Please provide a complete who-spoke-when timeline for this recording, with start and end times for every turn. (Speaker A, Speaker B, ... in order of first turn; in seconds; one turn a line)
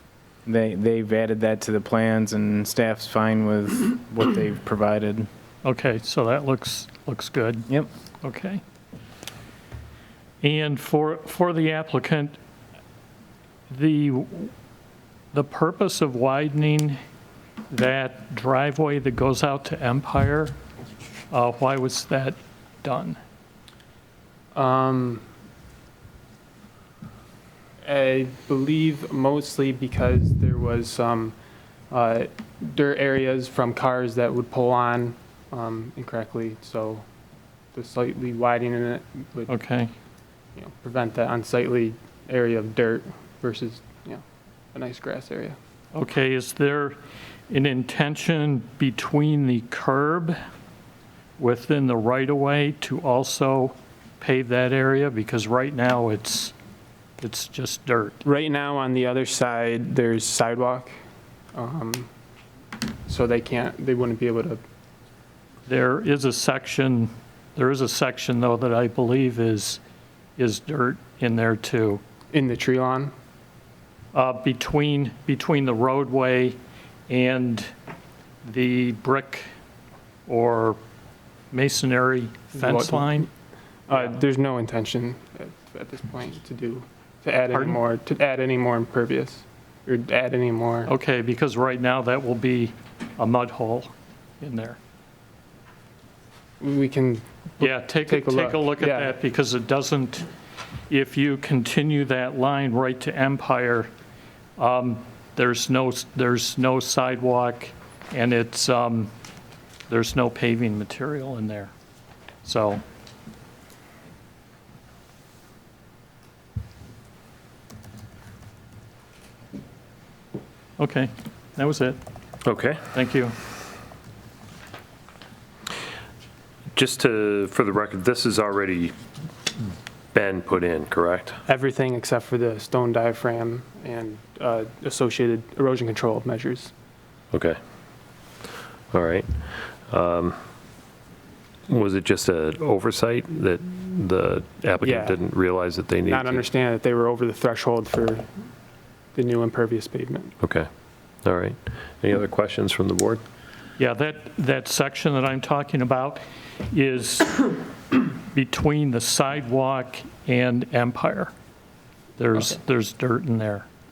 Speaker A: 0.5-5.3
Speaker B: 5.6-7.7
Speaker B: 8.2-8.6
Speaker B: 10.4-12.4
Speaker B: 13.7-14.5
Speaker B: 15.3-17.0
Speaker B: 17.7-20.6
Speaker B: 21.3-23.2
Speaker C: 24.5-25.2
Speaker C: 27.8-31.4
Speaker C: 31.9-37.0
Speaker C: 37.7-39.5
Speaker B: 39.5-39.9
Speaker C: 40.6-44.2
Speaker C: 44.7-45.6
Speaker B: 45.9-47.0
Speaker B: 47.5-50.4
Speaker B: 51.4-56.5
Speaker B: 57.2-58.2
Speaker C: 58.2-60.9
Speaker C: 61.5-62.1
Speaker C: 63.1-64.6
Speaker B: 65.7-69.8
Speaker B: 70.4-72.0
Speaker C: 72.3-73.1
Speaker B: 74.1-76.6
Speaker B: 77.1-77.7
Speaker B: 78.4-79.5
Speaker B: 80.3-80.8
Speaker B: 81.5-83.3
Speaker C: 82.5-83.3
Speaker C: 83.9-90.9
Speaker B: 83.9-84.2
Speaker B: 87.5-87.8
Speaker B: 90.9-94.8
Speaker C: 96.6-99.2
Speaker B: 97.6-100.3
Speaker B: 100.9-103.9
Speaker B: 104.6-109.1
Speaker B: 109.9-111.7
Speaker B: 112.4-112.8
Speaker B: 120.8-122.0
Speaker D: 122.5-122.9
Speaker B: 122.9-123.3
Speaker D: 126.7-128.9
Speaker D: 130.1-131.4
Speaker C: 131.5-136.7
Speaker D: 137.3-137.6
Speaker D: 138.9-140.4
Speaker D: 141.7-146.4
Speaker C: 144.8-145.2
Speaker C: 146.1-148.3
Speaker C: 149.2-150.3
Speaker D: 150.4-150.7
Speaker D: 151.2-153.2
Speaker B: 153.8-161.3
Speaker B: 162.2-163.7